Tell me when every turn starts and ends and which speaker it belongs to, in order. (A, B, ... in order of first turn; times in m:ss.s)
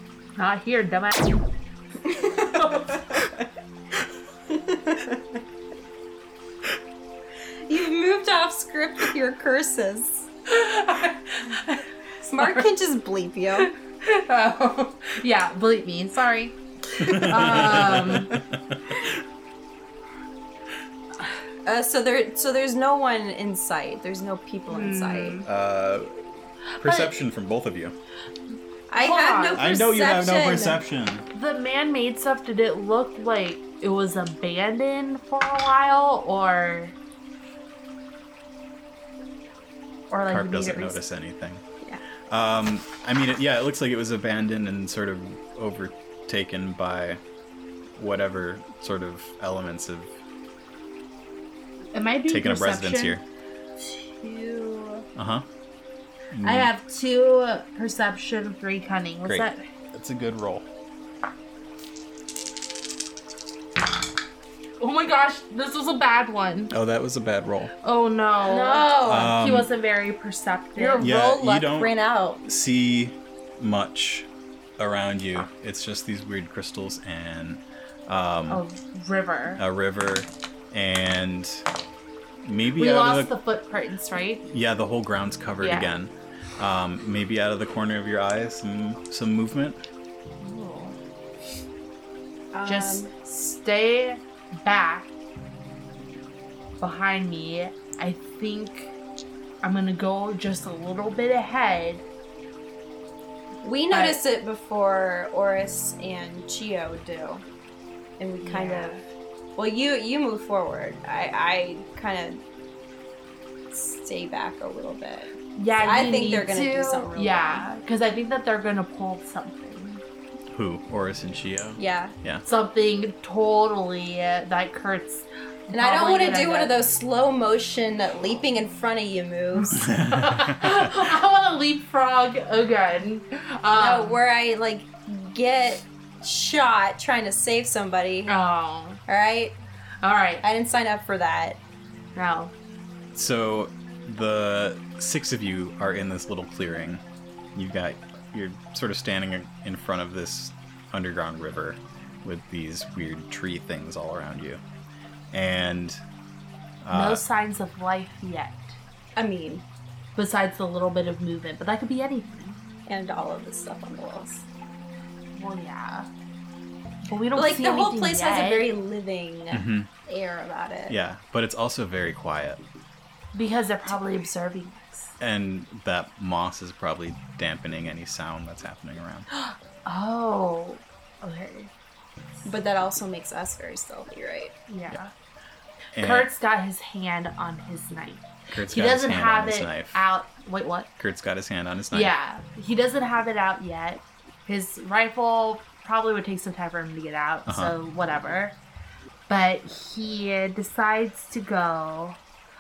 0:00.4-0:01.4 A
0:02.0-0:03.3 B
0:04.5-0:05.2 B
0:07.7-0:10.3 B
0:10.5-0:11.8 A
0:12.2-0:13.7 B
0:13.6-0:18.4 A
0:17.0-0:19.2 C
0:21.6-0:25.4 B
0:24.7-0:25.4 A
0:25.4-0:26.2 C
0:26.8-0:27.1 A
0:26.8-0:28.0 C
0:28.9-0:30.8 B
0:29.0-0:29.6 A
0:29.5-0:31.3 C
0:31.3-0:37.0 A
0:40.1-0:41.0 A
0:40.3-0:41.6 C
0:42.3-0:47.2 C
0:48.0-0:50.1 C
0:51.9-0:53.2 A
0:52.3-0:53.2 C
0:53.8-0:55.0 A
0:55.1-0:55.4 C
0:56.3-0:56.7 C
0:56.4-0:59.6 A
0:59.2-1:00.7 C
1:04.8-1:06.7 A
1:06.7-1:07.7 C
1:07.8-1:11.1 A
1:08.4-1:09.3 B
1:09.0-1:09.7 C
1:10.8-1:12.4 B
1:11.0-1:11.9 C
1:12.4-1:18.6 C
1:18.5-1:19.6 A
1:19.6-1:21.6 C
1:22.4-1:23.3 C
1:22.8-1:24.4 A
1:24.4-1:29.8 C
1:25.6-1:25.9 A
1:30.4-1:31.0 A
1:32.5-1:33.1 B
1:32.6-1:35.1 A
1:36.8-1:38.9 A
1:39.6-1:42.0 A
1:43.6-1:47.4 B
1:43.9-1:44.2 A
1:48.2-1:49.0 B
1:48.4-1:49.0 A
1:49.6-1:52.4 B
1:53.7-1:57.7 B
1:55.5-2:00.0 A
2:00.5-2:02.4 C
2:01.8-2:02.1 B
2:02.4-2:06.8 A
2:05.7-2:09.8 B
2:09.6-2:14.2 A
2:09.8-2:10.9 C
2:13.7-2:18.3 B
2:18.3-2:19.0 A
2:19.1-2:19.6 B
2:20.0-2:20.4 A
2:20.4-2:21.6 B
2:22.1-2:22.5 A
2:23.1-2:27.0 C
2:27.5-2:34.6 C
2:35.3-2:36.0 C
2:36.8-2:37.2 C
2:36.9-2:38.8 A
2:39.2-2:39.6 B
2:40.2-2:42.6 A
2:42.9-2:44.4 B
2:45.3-2:46.1 A
2:47.0-2:48.7 A
2:47.4-2:51.0 B
2:49.5-2:49.9 C
2:50.9-2:52.6 C
2:53.3-2:55.1 A
2:55.2-2:59.3 C
2:59.3-3:01.7 A
3:02.4-3:04.5 B
3:04.7-3:05.1 A
3:05.9-3:06.3 C
3:06.0-3:10.9 A
3:08.5-3:10.0 C
3:11.0-3:12.1 C
3:11.9-3:18.6 A
3:17.4-3:17.7 C
3:19.3-3:22.2 A